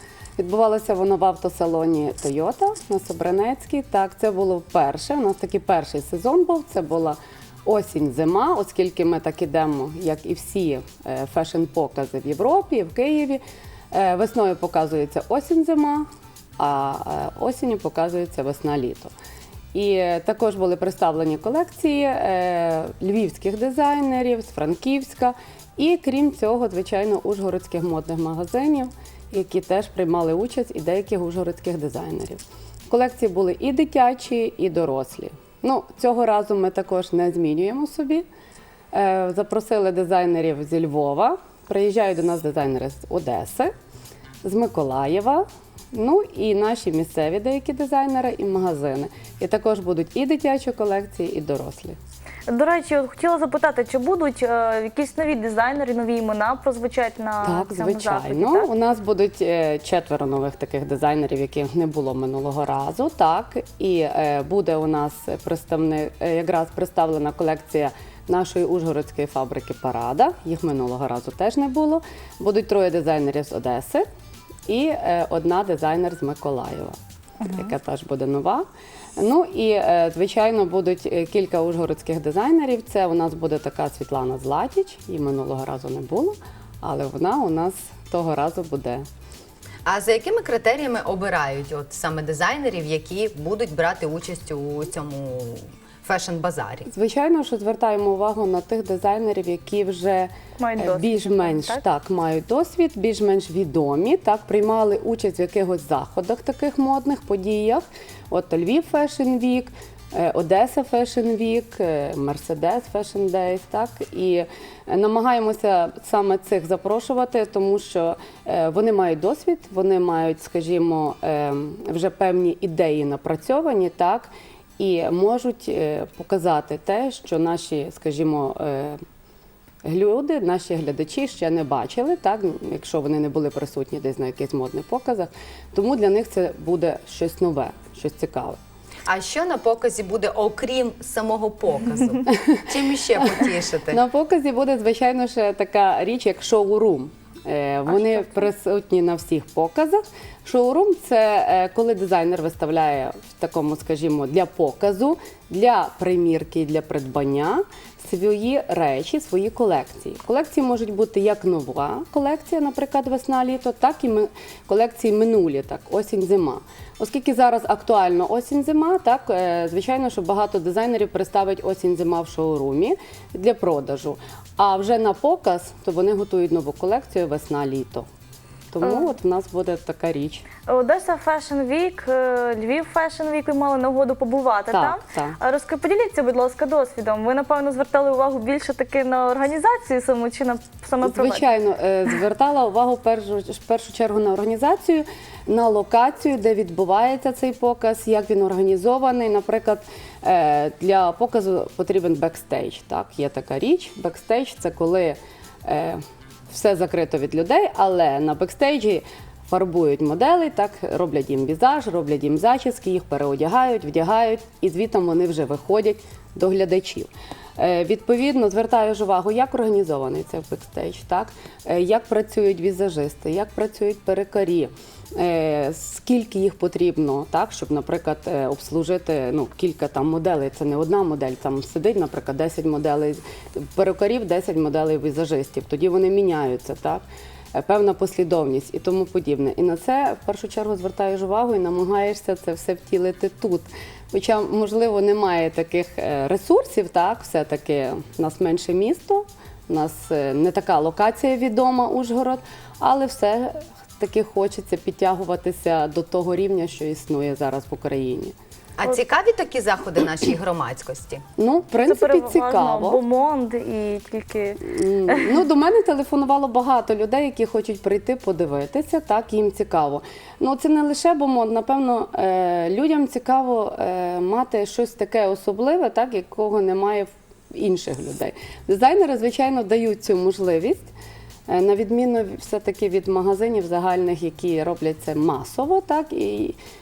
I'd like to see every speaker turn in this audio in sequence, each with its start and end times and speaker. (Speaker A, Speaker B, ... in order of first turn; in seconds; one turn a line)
Speaker A: 0.4-13.4
Speaker A: 13.9-16.1
Speaker A: 16.6-19.1
Speaker A: 19.7-38.2
Speaker A: 38.9-43.7
Speaker A: 44.4-52.0
Speaker B: 52.5-58.7
Speaker A: 57.4-74.0
Speaker A: 74.7-78.7
Speaker B: 77.4-77.7
Speaker A: 79.2-89.0
Speaker C: 89.8-96.9
Speaker A: 96.8-129.0
Speaker B: 100.6-101.8
Speaker A: 129.8-138.6
Speaker C: 139.1-144.0
Speaker A: 142.3-142.6
Speaker A: 143.9-178.1
Speaker A: 178.7-180.4
Speaker B: 180.7-191.4
Speaker A: 184.7-185.4
Speaker A: 191.0-258.3
Speaker C: 258.8-261.2
Speaker A: 261.4-263.0
Speaker B: 261.8-265.4
Speaker A: 264.6-280.9
Speaker A: 281.5-286.6